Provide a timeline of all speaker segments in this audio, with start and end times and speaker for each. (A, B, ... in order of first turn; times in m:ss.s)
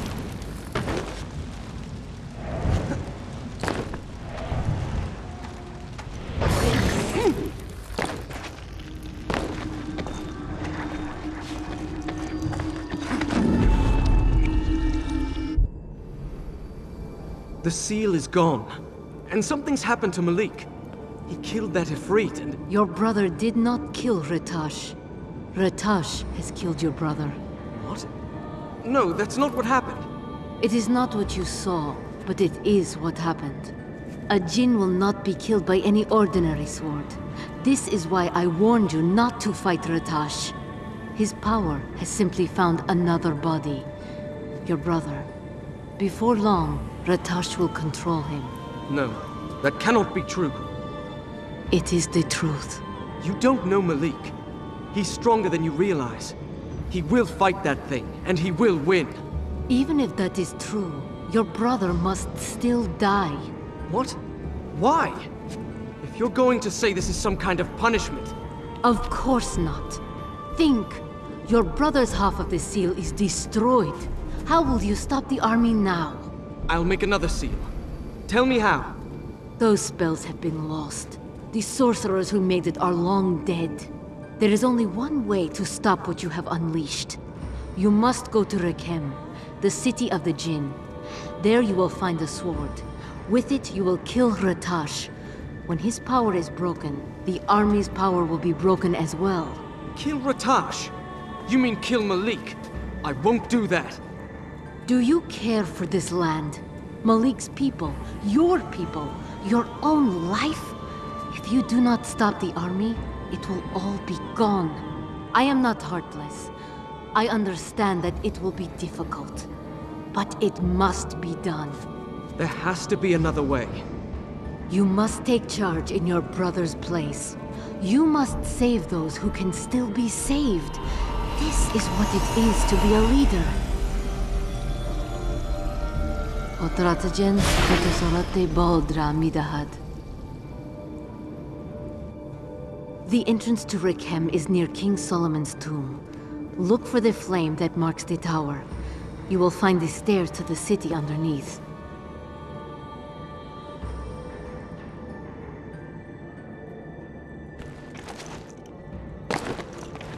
0:17.6-0:20.7 A
0:21.3-0:22.6 A
0:22.7-0:25.0 B
0:25.5-0:27.4 B
0:27.7-0:28.1 A
0:28.8-0:30.1 A
0:30.6-0:33.7 B
0:34.3-0:40.6 B
0:41.1-0:43.9 B
0:44.6-0:45.3 B
0:46.0-0:48.5 B
0:48.9-0:50.7 A
0:51.7-0:52.8 B
0:53.2-0:54.3 A
0:54.9-0:56.4 A
0:56.9-0:59.2 A
0:59.7-1:03.5 B
1:03.9-1:04.2 A
1:04.7-1:05.3 A
1:06.0-1:08.3 A
1:08.8-1:10.0 B
1:10.5-1:16.3 B
1:16.7-1:17.7 A
1:18.3-1:19.0 A
1:19.6-1:27.2 B
1:27.7-1:30.8 B
1:31.4-1:35.1 B
1:35.6-1:39.6 B
1:39.9-1:40.9 A
1:41.4-1:44.0 A
1:44.8-1:50.8 B
1:51.3-1:56.5 B
1:57.1-1:59.5 B
2:00.1-2:01.8 B
2:02.4-2:03.8 A
2:04.7-2:10.8 B
2:11.3-2:13.6 B
2:16.6-2:19.8 B
2:23.0-2:26.0 B
2:26.6-2:28.7 B
2:29.3-2:31.6 B